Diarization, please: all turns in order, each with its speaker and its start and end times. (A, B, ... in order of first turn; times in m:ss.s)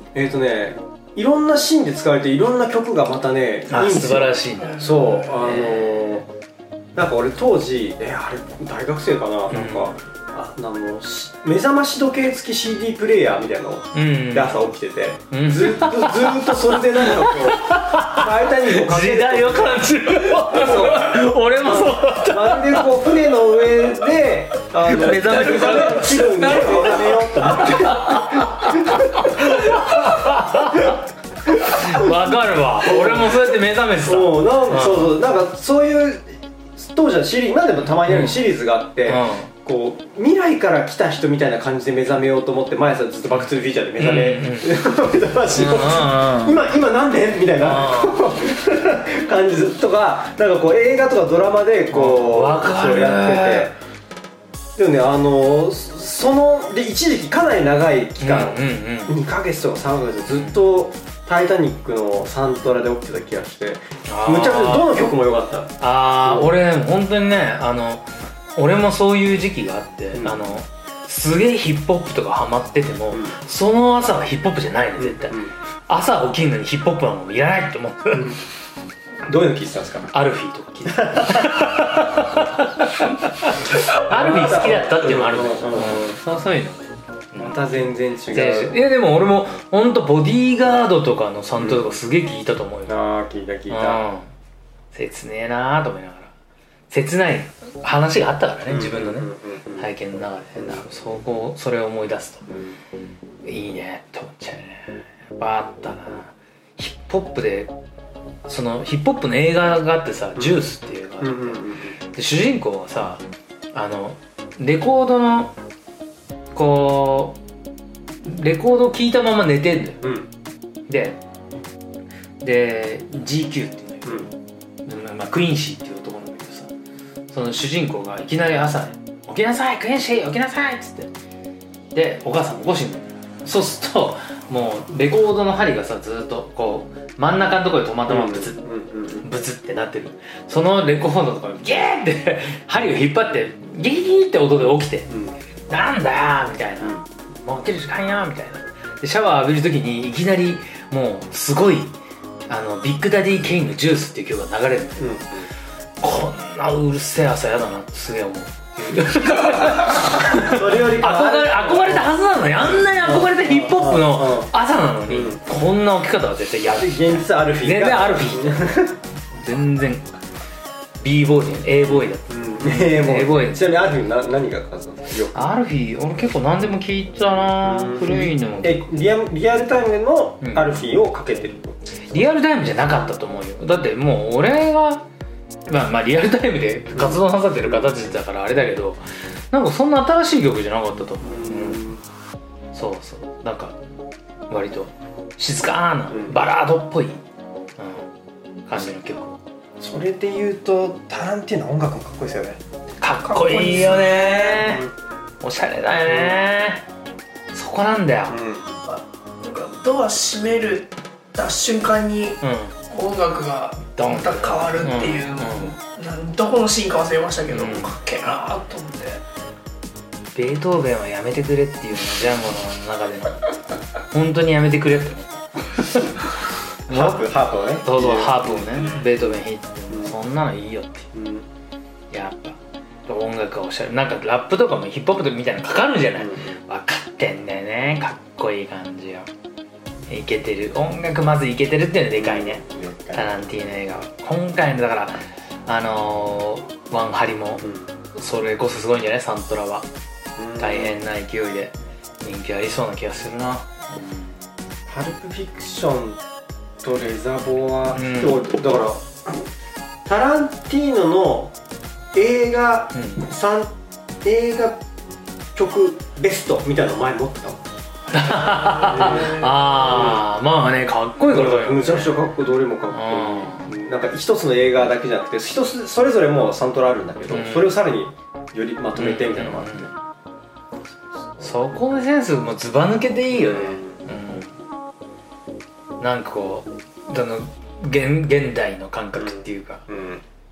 0:00.1-0:06.3 A
0:03.7-0:06.0 B
0:07.0-0:32.2 A
0:09.5-0:09.9 B
0:13.9-0:14.6 B
0:15.3-0:23.1 B
0:24.8-0:35.2 B
0:32.8-0:53.7 A
0:38.1-0:38.5 B
0:39.1-0:39.5 B
0:44.0-0:44.7 B
0:45.6-0:46.6 B
0:47.6-0:48.2 B
0:51.9-0:53.7 B
0:54.8-1:06.5 A
0:58.2-0:59.2 B
1:00.3-1:00.6 B
1:04.1-1:04.9 B
1:05.8-1:18.4 B
1:10.1-1:10.5 A
1:13.1-1:13.4 A
1:15.0-1:15.5 A
1:19.3-1:20.1 A
1:20.1-1:27.6 B
1:20.9-1:22.4 A
1:23.9-1:26.2 A
1:27.4-1:28.8 A
1:28.3-1:33.0 B
1:31.6-1:31.9 A
1:32.9-1:34.0 A
1:33.7-1:34.3 B
1:34.9-1:36.3 B
1:36.9-1:42.5 B
1:38.7-1:39.9 A
1:40.6-1:40.8 A
1:43.4-1:47.7 B
1:48.5-1:53.2 B
1:50.4-1:50.6 A
1:51.2-1:52.0 A
1:53.7-1:55.6 B
1:56.5-1:57.4 B
1:58.2-2:00.0 B
2:00.0-2:00.3 A
2:00.9-2:01.2 B
2:02.4-2:04.3 B
2:04.9-2:06.7 B
2:07.3-2:11.1 B
2:11.9-2:18.6 B
2:18.1-2:19.3 A
2:19.2-2:25.1 B
2:25.1-2:25.4 A
2:25.7-2:32.0 B
2:32.5-2:35.2 B
2:35.0-2:35.5 A
2:36.0-2:50.2 B
2:39.5-2:44.5 A
2:45.1-2:45.4 A
2:46.7-2:49.0 A
2:51.0-2:53.7 B
2:51.9-2:55.5 A
2:55.3-2:58.9 B
2:57.6-3:01.8 A
3:00.4-3:00.8 B
3:02.1-3:05.1 B
3:05.7-3:11.9 B
3:06.9-3:08.1 A
3:11.2-3:12.0 A
3:12.7-3:13.8 B
3:14.5-3:17.2 B
3:16.1-3:16.4 A
3:17.8-3:18.1 B
3:18.7-3:19.4 B
3:19.8-3:22.6 A
3:23.0-3:24.9 B
3:23.3-3:24.7 C
3:24.6-3:24.9 A
3:25.4-3:26.8 B
3:26.1-3:26.4 A
3:27.5-3:28.4 B
3:28.3-3:28.7 A
3:28.8-3:39.2 C
3:32.4-3:32.8 B
3:34.0-3:35.8 B
3:37.5-3:38.0 B
3:40.3-3:43.4 B
3:44.1-3:46.2 B
3:46.9-3:49.2 A
3:46.9-3:51.1 B
3:51.1-3:51.5 A
3:52.1-3:59.3 B
3:56.2-3:56.6 A
4:00.1-4:09.9 B
4:02.2-4:03.3 A
4:10.4-4:11.0 A
4:10.6-4:14.4 B
4:14.9-4:16.2 A
4:16.8-4:19.5 A
4:17.9-4:18.5 B
4:20.0-4:21.6 A
4:22.1-4:24.8 A
4:23.0-4:23.3 B
4:25.6-4:27.7 A
4:28.1-4:32.2 B
4:28.3-4:29.5 C
4:28.8-4:30.2 A
4:31.3-4:39.9 A
4:32.9-4:33.7 B
4:37.3-4:37.8 B
4:39.0-4:39.9 B
4:41.4-4:44.5 B
4:43.3-4:44.0 A
4:46.0-4:49.8 B
4:49.2-4:50.2 A